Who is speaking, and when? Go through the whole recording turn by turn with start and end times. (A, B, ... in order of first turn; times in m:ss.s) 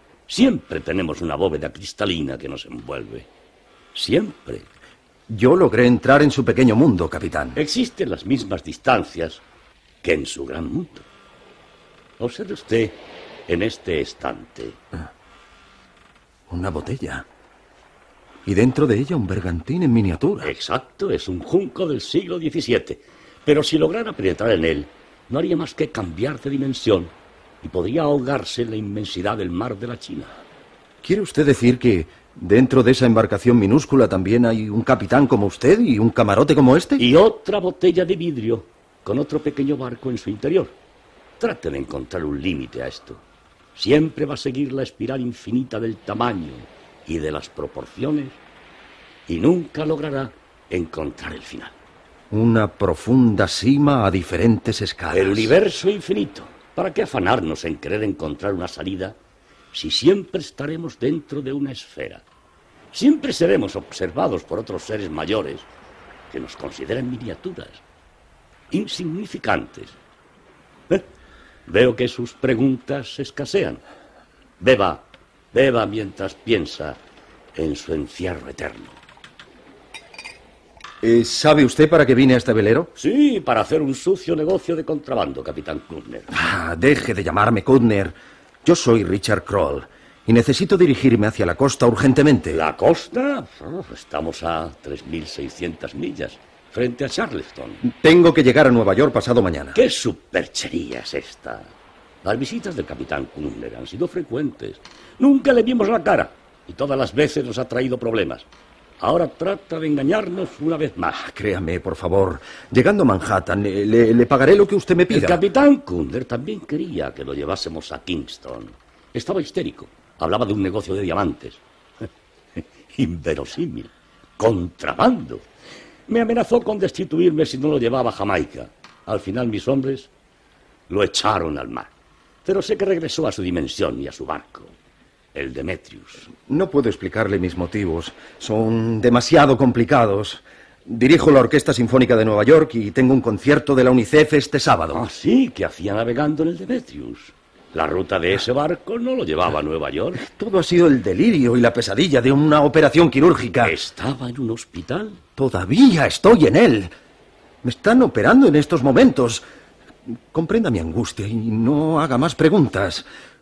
0:00.3-0:03.3 A
0:03.9-0:04.6 A
0:05.3-0:07.6 B
0:07.6-0:09.4 A
0:10.0-0:11.0 A
0:12.2-0:14.8 A
0:16.5-0:17.2 B
0:18.4-0:20.5 B
0:20.4-0:30.3 A
0:31.0-0:37.1 B
0:37.0-0:40.7 A
0:41.4-0:43.2 A
0:43.8-0:48.4 A
0:49.3-0:51.7 A
0:52.3-0:55.5 B
0:55.1-0:59.2 A
0:59.7-1:02.2 A
1:02.9-1:05.7 A
1:06.3-1:07.8 A
1:08.7-1:10.0 A
1:11.6-1:13.8 A
1:14.6-1:17.0 A
1:17.5-1:19.0 A
1:21.0-1:22.9 B
1:23.0-1:26.3 A
1:26.3-1:32.6 B
1:32.5-1:37.8 A
1:37.8-1:39.8 B
1:39.7-1:41.7 A
1:42.2-1:48.4 A
1:49.0-1:51.2 A
1:51.1-1:55.4 B
1:55.1-2:01.6 A
2:02.6-2:05.4 A
2:06.1-2:10.1 A
2:10.9-2:11.9 A
2:12.4-2:14.7 A
2:15.3-2:16.3 A
2:16.3-2:25.0 B
2:24.9-2:30.2 A
2:30.1-2:33.8 B
2:33.6-2:35.2 A
2:35.4-2:36.9 B
2:37.6-2:39.4 B
2:40.1-2:43.0 B